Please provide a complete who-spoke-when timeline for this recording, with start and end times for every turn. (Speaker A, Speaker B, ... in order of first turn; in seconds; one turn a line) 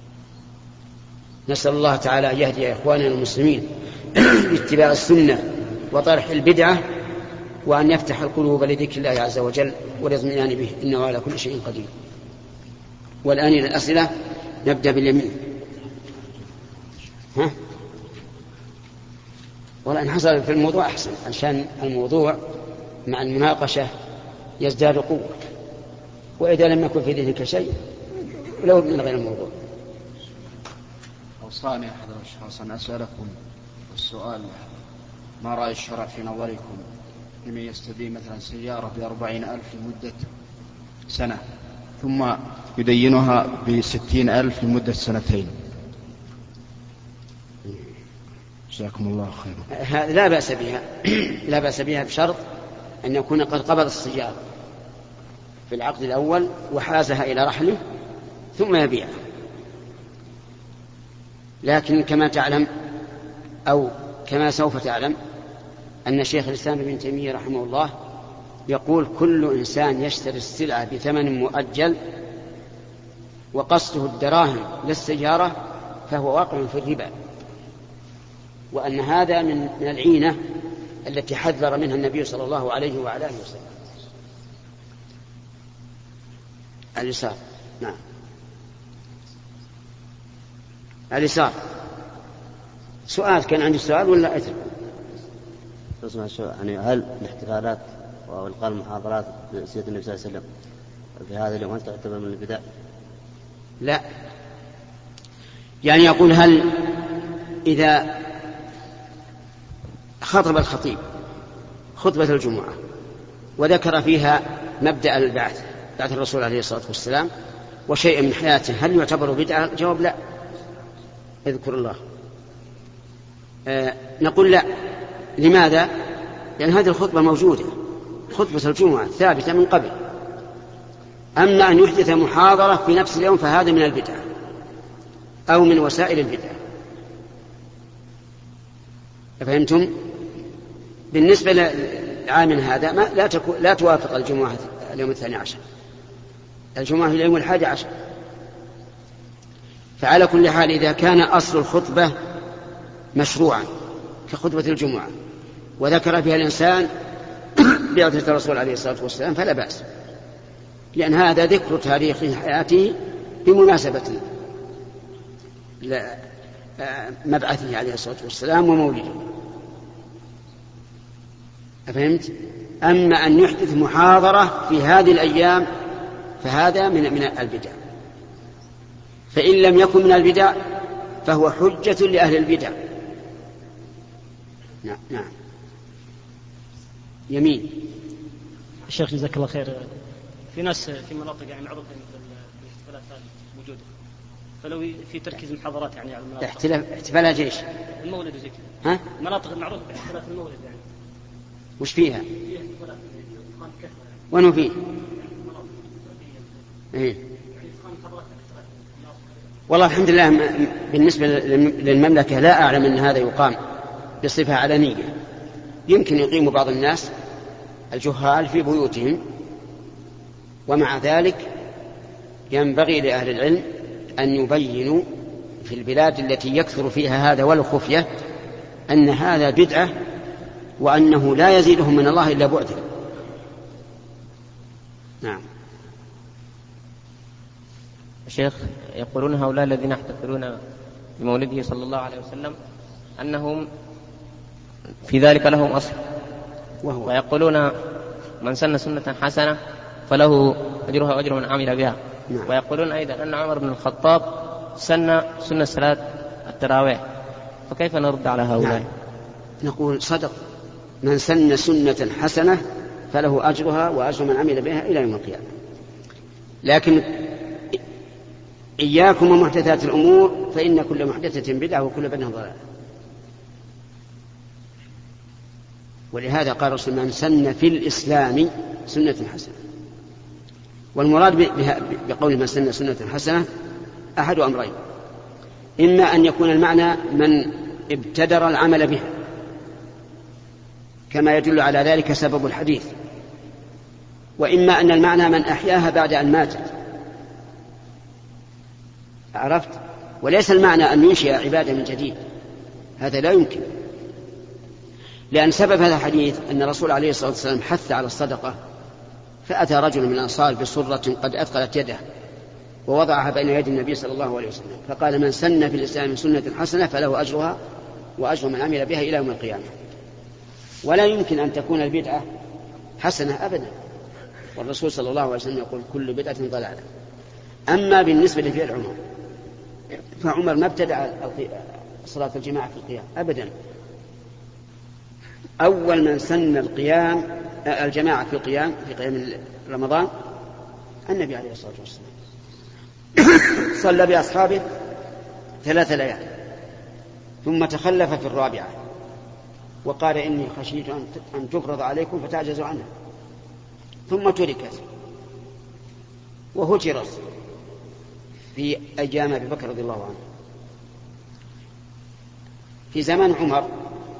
Speaker A: 1.5-6.8
Speaker A: 7.7-11.9
Speaker A: 13.2-14.1
Speaker A: 14.6-15.4
Speaker A: 19.8-22.4
Speaker A: 23.1-23.9
Speaker A: 24.6-25.3
Speaker A: 26.4-27.8
Speaker A: 28.6-29.5
Speaker B: 31.4-33.3
Speaker B: 33.9-34.7
Speaker B: 35.4-36.8
Speaker B: 37.4-40.3
Speaker B: 41.1-41.4
Speaker B: 42.0-45.5
Speaker B: 48.7-49.6
Speaker A: 49.7-52.4
Speaker A: 53.0-54.4
Speaker A: 55.7-57.8
Speaker A: 58.5-59.1
Speaker A: 61.6-62.7
Speaker A: 63.7-65.2
Speaker A: 66.0-67.9
Speaker A: 68.7-72.0
Speaker A: 73.5-75.5
Speaker A: 76.1-77.1
Speaker A: 78.7-80.4
Speaker A: 81.0-83.7
Speaker A: 87.0-88.0
Speaker A: 91.1-91.5
Speaker A: 93.1-94.6
Speaker C: 96.0-100.4
Speaker C: 101.2-102.6
Speaker A: 105.8-106.9
Speaker A: 107.6-108.2
Speaker A: 110.2-111.0
Speaker A: 112.0-112.8
Speaker A: 113.6-117.3
Speaker A: 117.9-120.1
Speaker A: 121.4-122.0
Speaker A: 123.7-124.7
Speaker A: 125.4-125.9
Speaker A: 126.6-127.7
Speaker A: 128.3-129.9
Speaker A: 131.4-134.2
Speaker A: 135.5-136.6
Speaker A: 139.4-139.9
Speaker A: 141.1-145.6
Speaker A: 146.8-147.9
Speaker A: 150.0-152.1
Speaker A: 153.1-153.7
Speaker A: 154.3-155.1
Speaker A: 155.8-156.9
Speaker A: 157.6-159.8
Speaker A: 160.9-164.2
Speaker A: 165.8-166.2
Speaker A: 166.8-169.2
Speaker A: 171.9-172.3
Speaker A: 172.8-175.7
Speaker A: 176.4-177.8
Speaker A: 179.3-180.6
Speaker A: 181.2-182.7
Speaker A: 184.8-185.3
Speaker A: 187.3-187.8
Speaker D: 188.9-189.9
Speaker D: 190.5-193.8
Speaker D: 194.6-196.7
Speaker A: 196.4-197.6
Speaker D: 198.0-200.8
Speaker A: 201.8-202.2
Speaker D: 202.4-204.3
Speaker A: 204.3-204.8
Speaker D: 205.1-206.5
Speaker D: 207.5-209.1
Speaker A: 209.7-213.6
Speaker A: 214.2-215.1
Speaker A: 215.9-217.1
Speaker A: 217.9-219.2
Speaker A: 220.7-221.5
Speaker A: 222.5-223.7
Speaker A: 224.2-225.0
Speaker A: 225.6-228.1
Speaker A: 228.9-229.9
Speaker A: 230.8-232.8
Speaker E: 238.3-240.6
Speaker E: 241.2-242.5
Speaker E: 243.2-243.6
Speaker E: 245.1-246.0
Speaker A: 246.8-247.1
Speaker E: 247.1-247.7
Speaker E: 248.4-249.6
Speaker E: 250.1-257.0
Speaker E: 257.7-258.9
Speaker A: 259.6-260.3
Speaker A: 261.0-265.5
Speaker A: 266.6-267.3
Speaker A: 268.8-272.6
Speaker A: 276.1-279.6
Speaker A: 280.9-283.4
Speaker A: 284.2-284.7
Speaker A: 285.8-289.1
Speaker A: 291.1-292.9
Speaker A: 294.4-296.7
Speaker A: 299.3-302.2
Speaker A: 303.0-303.6
Speaker A: 305.3-308.6
Speaker A: 309.4-312.0
Speaker A: 312.9-317.6
Speaker A: 318.2-319.7
Speaker A: 320.8-322.2
Speaker A: 323.0-323.7
Speaker A: 324.6-326.8
Speaker A: 327.7-329.0
Speaker A: 330.2-333.5
Speaker A: 335.6-340.1
Speaker A: 341.1-342.1
Speaker A: 343.2-344.6
Speaker A: 345.6-346.2
Speaker A: 347.4-348.7
Speaker A: 349.8-352.9
Speaker A: 354.1-354.8
Speaker A: 356.5-357.2
Speaker A: 358.5-360.2
Speaker A: 362.9-363.7